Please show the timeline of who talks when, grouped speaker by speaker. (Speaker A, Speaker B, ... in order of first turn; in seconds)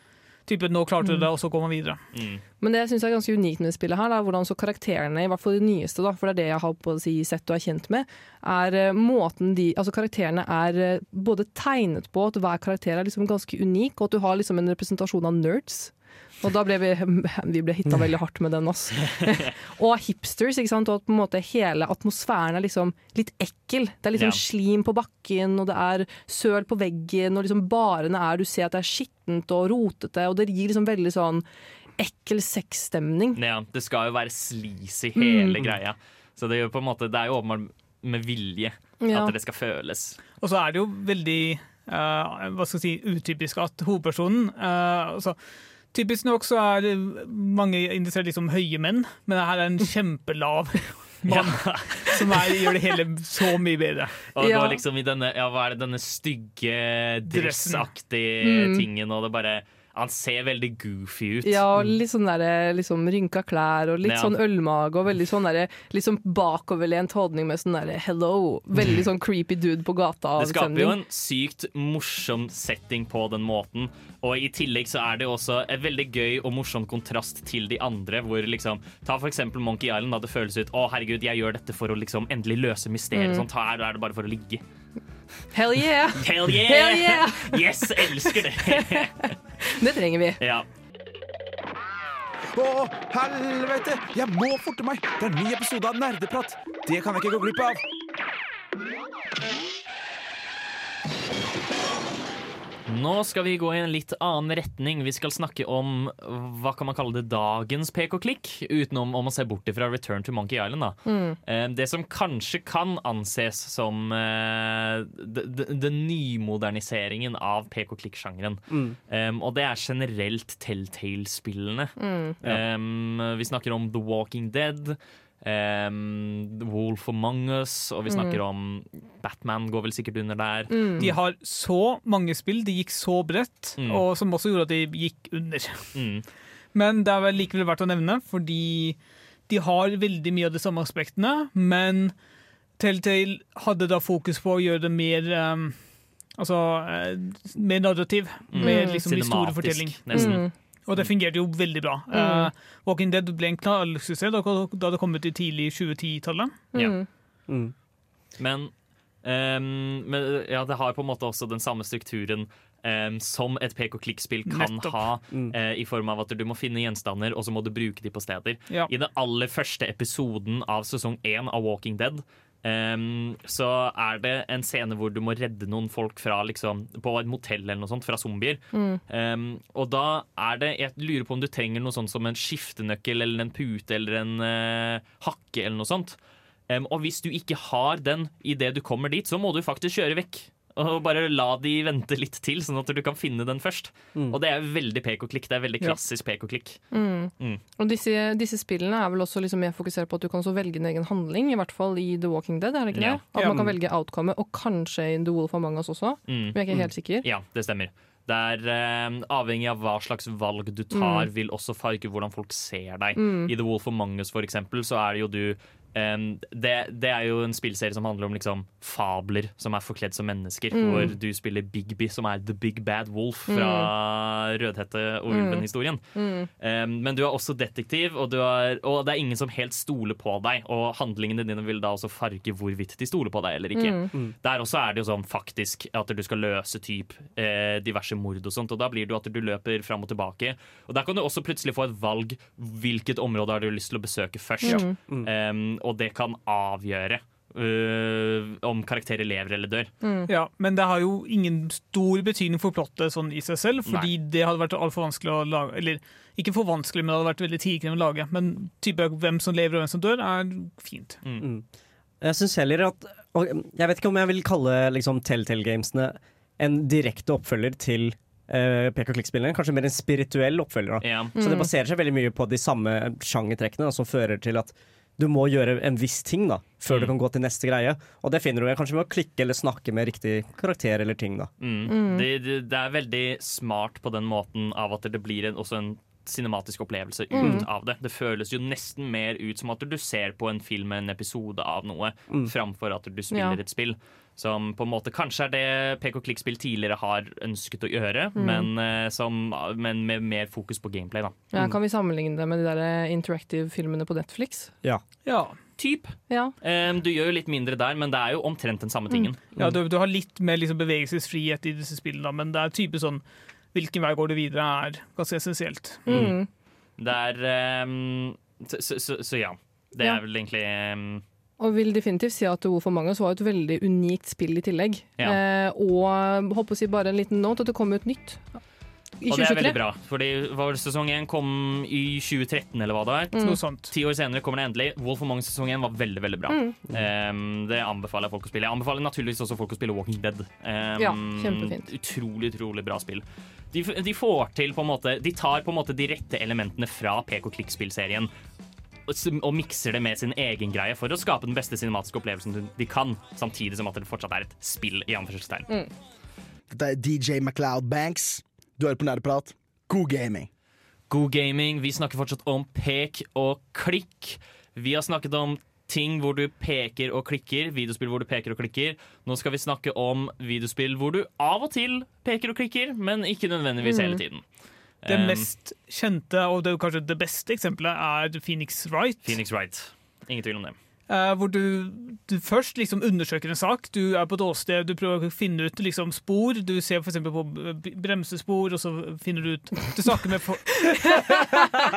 Speaker A: 0.5-2.0, 40.4-45.4, 45.9-54.2, 57.3-57.9, 131.0-135.9, 136.7-142.1, 142.8-145.8, 146.4-156.6, 164.5-165.0, 250.3-261.2, 305.3-305.6, 309.6-313.2, 313.7-316.0, 333.4-333.9, 375.1-379.4, 381.1-391.6
Speaker B: 2.1-2.4, 24.1-24.4, 33.4-40.2, 51.3-52.4, 54.3-61.6, 64.0-64.3, 70.4-84.6, 86.2-89.3, 90.4-90.7, 102.9-131.0, 133.8-134.0, 135.9-136.2, 148.5-151.1, 158.4-158.7, 159.2-186.2, 186.7-196.8, 202.9-203.2, 206.3-226.0, 226.6-249.9, 253.8-254.1, 271.0-271.3, 276.9-277.1, 281.6-301.4, 305.8-309.4, 317.0-321.2, 329.2-348.3, 349.1-355.7, 361.1-374.4, 375.0-375.5, 379.2-380.8
Speaker C: 2.6-31.4, 32.0-33.4, 35.2-35.6, 39.0-39.3, 54.4-54.8, 58.4-58.9, 61.4-71.0, 83.1-83.5, 85.5-90.4, 111.1-111.4, 122.0-122.3, 128.1-128.4, 130.7-131.1, 148.6-149.0, 150.1-150.5, 152.1-152.5, 156.7-157.1, 178.7-179.0, 196.9-207.2, 210.9-211.3, 213.2-213.5, 220.7-221.1, 223.5-223.9, 225.3-225.6, 226.2-226.5, 233.8-234.1, 244.6-245.0, 250.0-250.3, 271.4-271.7, 281.9-282.3, 287.3-287.7, 293.3-293.6, 298.4-298.7, 301.5-304.7, 306.3-306.6, 316.1-316.5, 321.6-328.6, 329.2-329.8, 333.3-333.6, 336.5-336.8, 341.0-341.9, 373.8-374.2
Speaker D: 92.5-97.8
Speaker E: 157.5-157.7, 261.4-261.6, 262.2-281.5, 287.4-287.6, 316.1-316.4
Speaker F: 356.7-360.5